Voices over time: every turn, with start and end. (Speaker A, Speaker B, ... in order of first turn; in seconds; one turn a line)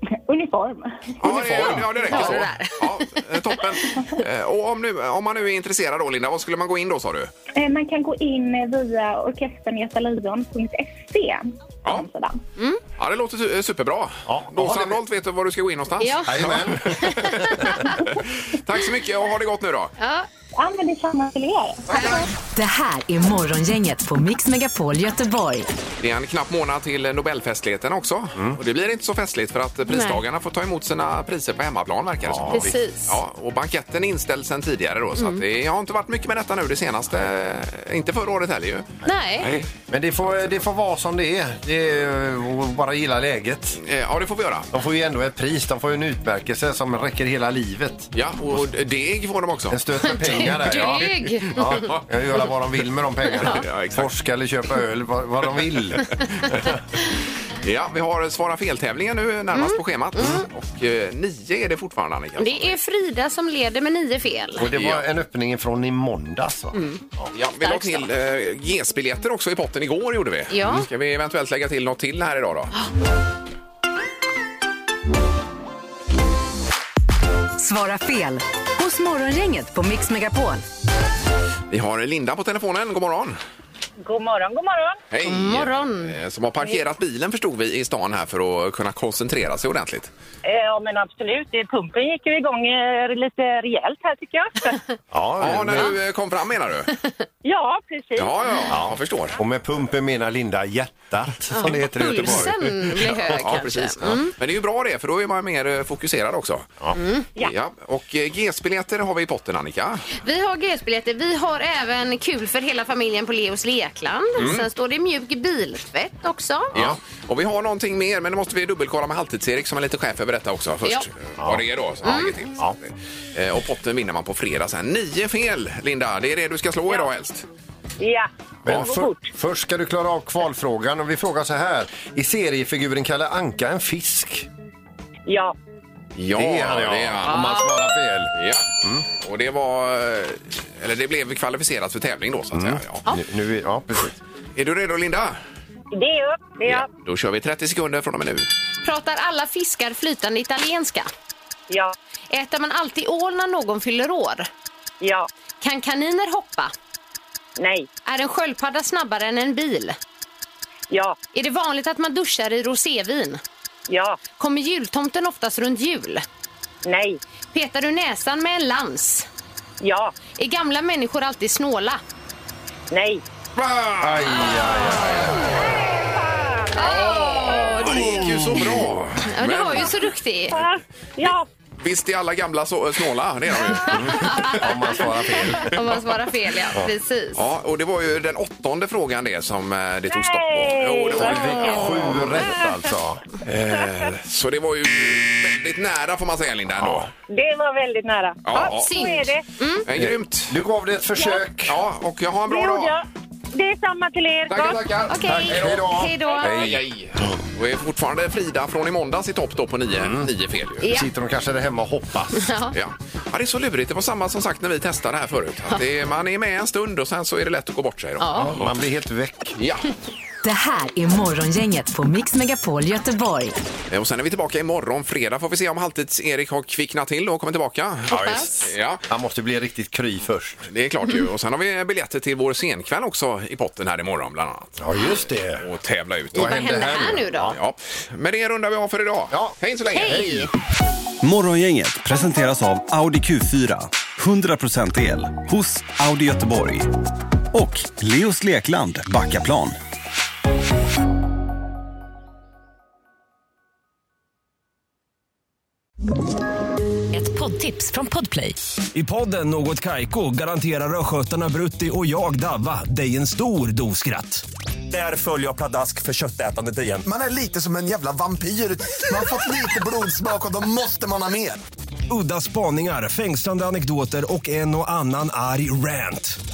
Speaker A: 0.3-1.2
Speaker B: 1.2-7.3
Speaker C: 1.2-2.5
Speaker D: 1.6-3.8
Speaker A: 7.6-12.4
Speaker B: 13.0-19.9
Speaker C: 14.3-15.0
Speaker D: 16.0-17.8
Speaker C: 16.3-17.9
Speaker D: 20.0-20.3
Speaker A: 20.6-22.3
Speaker E: 22.0-25.7
Speaker B: 26.0-39.7
Speaker D: 29.9-30.2
Speaker C: 32.2-32.7
Speaker D: 32.5-33.2
Speaker D: 39.0-39.5
Speaker C: 39.8-43.8
Speaker B: 43.8-44.7
Speaker C: 44.7-48.6
Speaker B: 48.1-52.0
Speaker C: 49.7-56.8
Speaker D: 50.0-51.9
Speaker D: 53.3-53.6
Speaker B: 53.4-54.1
Speaker B: 57.6-62.8
Speaker D: 59.5-60.5
Speaker D: 62.4-64.7
Speaker C: 64.6-67.3
Speaker B: 64.7-65.0
Speaker D: 66.7-67.0
Speaker B: 67.3-72.7
Speaker D: 67.6-68.1
Speaker D: 70.5-70.9
Speaker E: 77.6-80.6
Speaker B: 81.7-83.4
Speaker F: 84.0-85.0
Speaker B: 85.1-90.1
Speaker D: 85.2-86.2
Speaker F: 90.4-94.8
Speaker C: 95.1-96.0
Speaker B: 95.4-96.9
Speaker F: 97.4-98.5
Speaker B: 98.2-99.4
Speaker C: 98.7-104.2
Speaker D: 101.5-104.3
Speaker B: 103.0-106.8
Speaker D: 106.9-107.3
Speaker B: 107.4-110.1
Speaker D: 110.2-116.7
Speaker B: 114.4-114.7
Speaker C: 116.7-117.0
Speaker B: 116.7-127.5
Speaker C: 121.4-121.7
Speaker D: 122.0-122.3
Speaker F: 128.0-129.3
Speaker C: 128.7-134.5
Speaker B: 128.7-129.0
Speaker F: 135.3-135.6
Speaker B: 136.2-137.7
Speaker C: 136.3-139.1
Speaker B: 138.3-143.1
Speaker C: 142.5-144.2
Speaker B: 144.6-145.4
Speaker F: 145.9-146.9
Speaker B: 146.6-148.5
Speaker D: 148.8-151.1
Speaker F: 151.7-151.9
Speaker D: 152.3-154.5
Speaker F: 155.0-155.3
Speaker D: 155.6-156.7
Speaker F: 157.6-157.9
Speaker D: 158.1-160.0
Speaker F: 160.9-161.2
Speaker D: 161.3-163.4
Speaker F: 163.9-164.2
Speaker D: 164.4-166.2
Speaker F: 166.8-167.2
Speaker D: 167.5-169.3
Speaker F: 169.8-170.2
Speaker D: 170.3-172.0
Speaker F: 172.9-173.2
Speaker B: 173.6-175.4
Speaker C: 174.0-175.5
Speaker D: 176.7-178.5
Speaker B: 176.8-180.1
Speaker C: 177.9-179.2
Speaker D: 179.2-180.6
Speaker F: 180.5-181.5
Speaker B: 181.8-184.8
Speaker C: 183.9-186.0
Speaker D: 184.0-184.6
Speaker D: 185.5-187.4
Speaker B: 187.4-192.4
Speaker F: 190.1-191.7
Speaker C: 191.1-193.2
Speaker D: 191.2-192.3
Speaker B: 193.5-197.1
Speaker F: 193.7-194.1
Speaker C: 196.8-197.1
Speaker F: 197.3-199.4
Speaker B: 198.4-198.9
Speaker D: 198.6-199.9
Speaker B: 199.9-200.6
Speaker C: 199.9-201.8
Speaker B: 201.7-203.0
Speaker F: 202.5-204.8
Speaker B: 204.5-210.9
Speaker D: 205.1-206.7
Speaker C: 205.2-207.3
Speaker C: 209.9-210.3
Speaker D: 210.8-211.1
Speaker C: 210.8-212.5
Speaker D: 212.3-212.8
Speaker B: 212.7-218.6
Speaker D: 218.2-218.6
Speaker C: 218.3-219.6
Speaker B: 219.6-219.9
Speaker E: 220.4-223.6
Speaker B: 223.9-229.0
Speaker C: 228.1-230.6
Speaker D: 228.1-228.5
Speaker B: 230.7-236.7
Speaker C: 234.8-235.7
Speaker C: 236.3-237.6
Speaker D: 236.3-237.5
Speaker B: 237.5-240.4
Speaker C: 239.3-240.5
Speaker D: 239.9-240.5
Speaker G: 241.2-246.9
Speaker G: 247.5-249.8
Speaker E: 257.1-258.6
Speaker H: 258.9-267.0
Speaker I: 267.0-271.6
Speaker H: 272.1-276.4